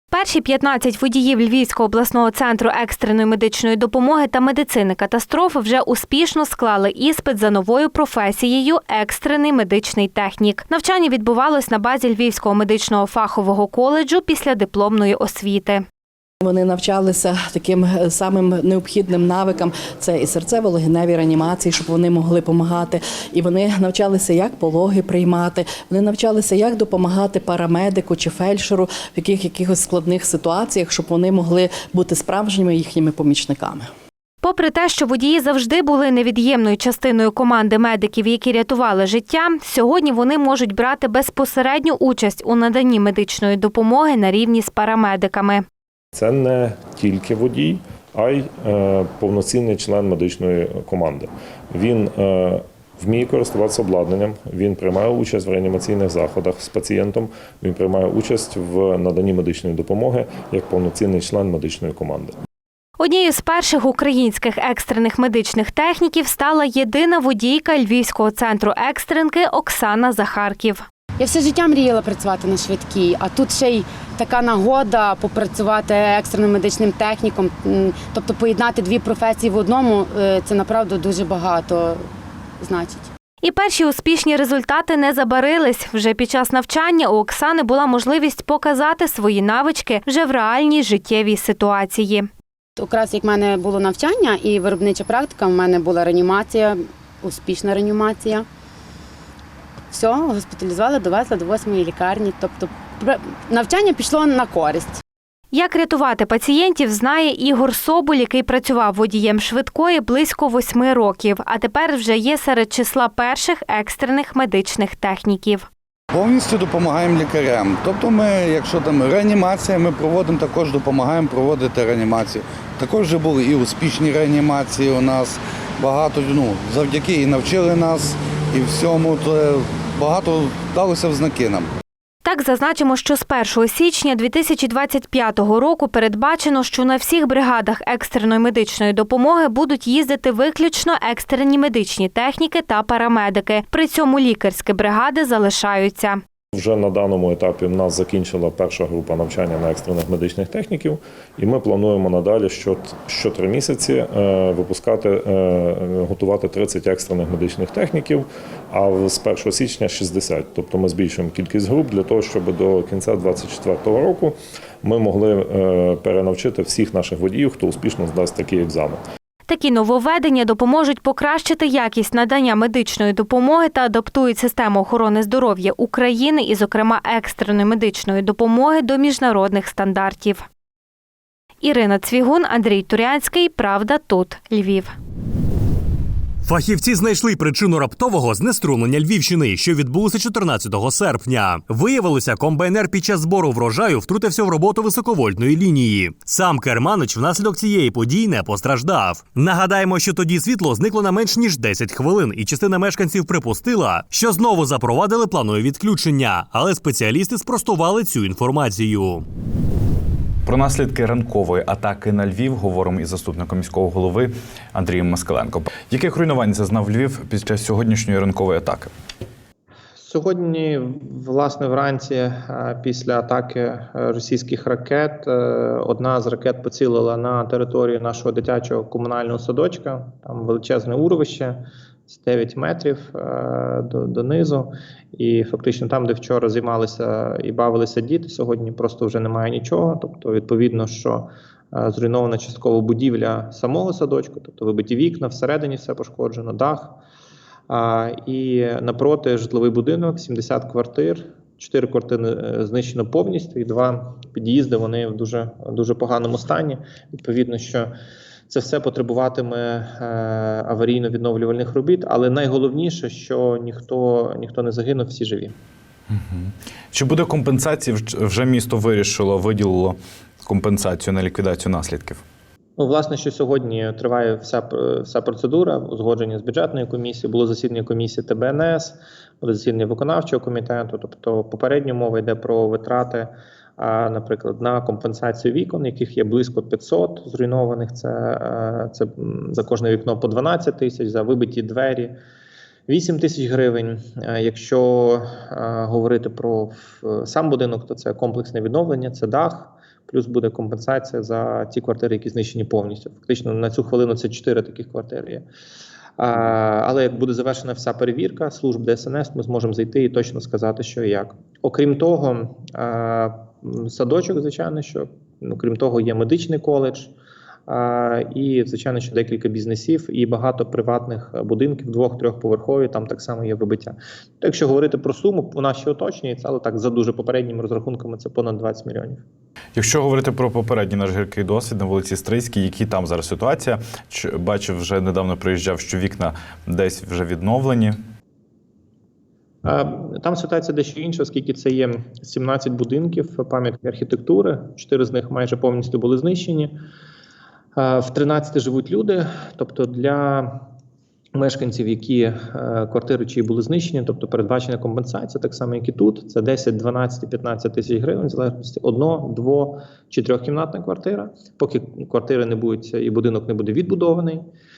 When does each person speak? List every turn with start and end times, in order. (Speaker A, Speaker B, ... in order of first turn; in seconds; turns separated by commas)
Speaker A: 0.1-15.8, Speaker B: 16.4-33.9, Speaker A: 34.4-45.6, Speaker C: 46.1-62.3, Speaker A: 63.0-70.8, Speaker D: 71.2-82.0, Speaker D: 82.6-83.1, Speaker A: 83.4-92.3, Speaker D: 92.8-98.5, Speaker D: 99.9-105.0, Speaker A: 105.5-115.7, Speaker E: 116.1-131.7, Speaker A: 132.2-146.2, Speaker C: 146.5-150.8, Speaker C: 151.4-168.9, Speaker A: 169.5-180.4, Speaker A: 181.6-184.9, Speaker F: 186.4-209.2, Speaker G: 210.4-218.9, Speaker H: 219.9-247.0, Speaker H: 247.7-257.9, Speaker H: 258.5-265.6, Speaker G: 266.1-272.2, Speaker H: 272.8-292.1, Speaker H: 292.9-305.5, Speaker H: 306.2-317.1, Speaker H: 317.7-329.2, Speaker G: 329.7-338.0, Speaker H: 339.6-346.7, Speaker H: 347.8-350.7, Speaker H: 351.3-364.5